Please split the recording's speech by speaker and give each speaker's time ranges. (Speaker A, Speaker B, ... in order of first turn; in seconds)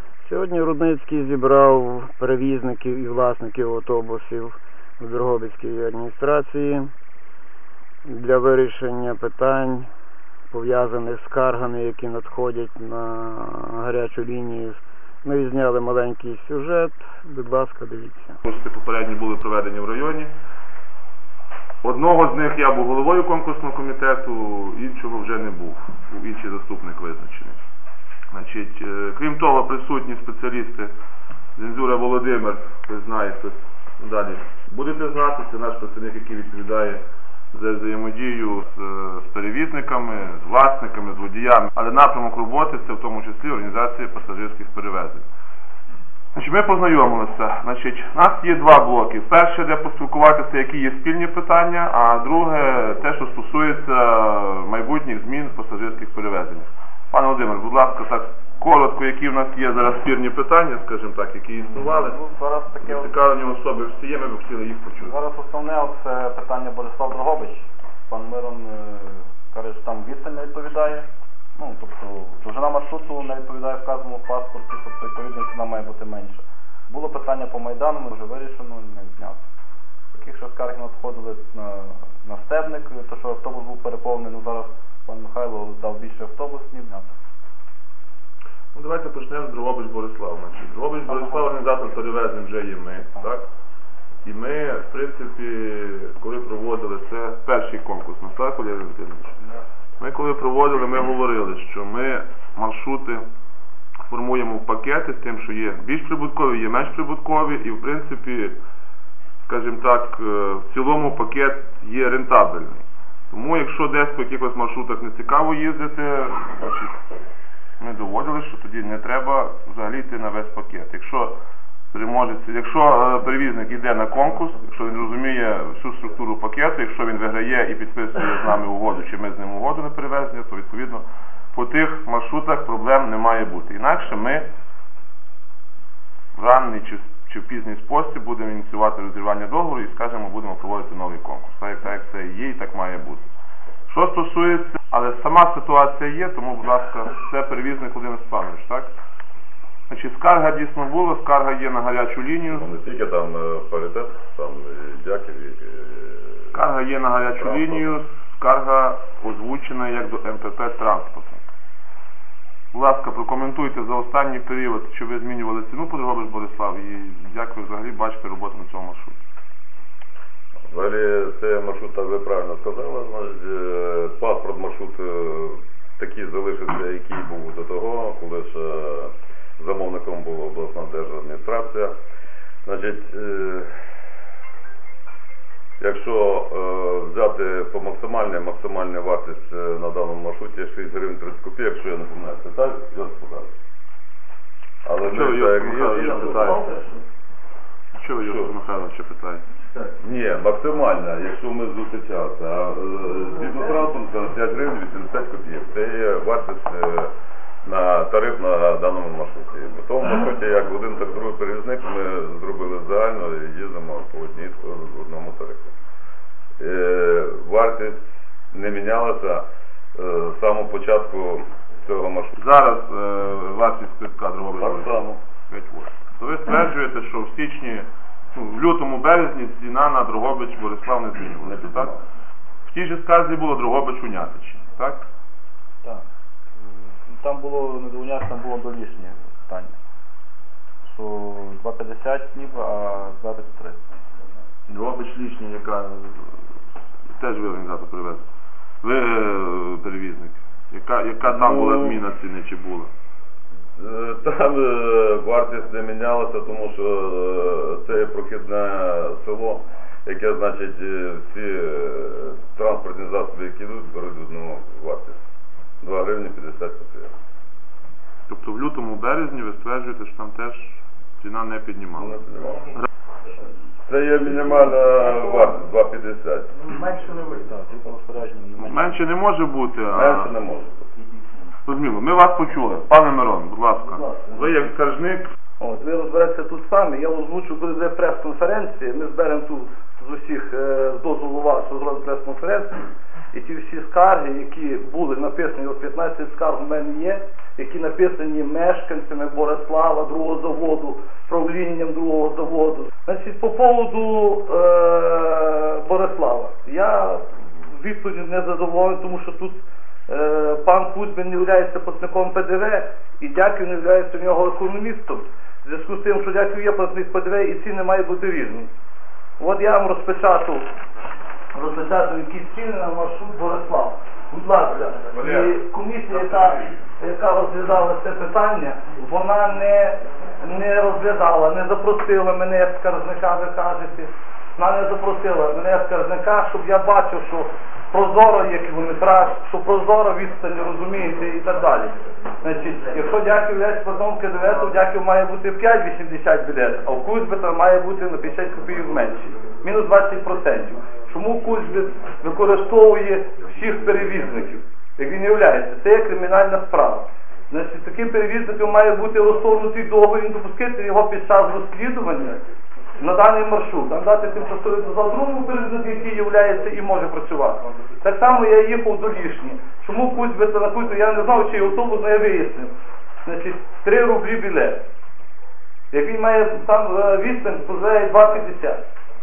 Speaker A: 0.2-6.9, 8.0-9.9, 10.5-18.4
Speaker B: 18.4-20.3, 21.8-27.6, 28.3-30.9, 31.6-45.2, 46.3-62.2, 62.8-65.2, 88.7-93.4, 94.2-99.3, 100.0-103.3, 104.0-108.6, 109.5-117.0, 117.8-121.3, 121.9-134.5, 136.3-143.3, 143.9-148.9, 149.9-152.7, 156.5-161.5, 162.7-169.2, 195.0-196.6, 197.9-199.4, 222.3-224.9, 225.5-232.0, 232.6-235.1, 244.7-246.3, 247.1-248.2, 248.8-252.9, 268.3-272.2, 278.6-280.3, 281.6-285.3, 325.1-325.5, 326.2-326.6
Speaker C: 61.7-63.1, 65.0-79.4, 80.1-87.2, 91.1-91.4, 236.6-239.8, 240.8-243.8, 276.7-279.0
Speaker D: 152.5-156.6, 157.4-157.9, 170.7-181.9, 182.6-183.8, 185.8-193.5, 194.8-196.6, 198.2-198.5, 200.0-207.1, 207.6-215.7, 216.6-219.4, 219.9-222.3, 224.6-225.2, 231.4-232.0, 251.2-252.0, 253.8-265.2, 265.8-267.1, 272.0-272.7, 273.9-276.5, 279.9-280.9
Speaker E: 195.9-197.0, 285.6-318.7, 319.4-320.7, 321.5-362.4, 363.0-372.7, 373.2-374.8, 375.9-378.8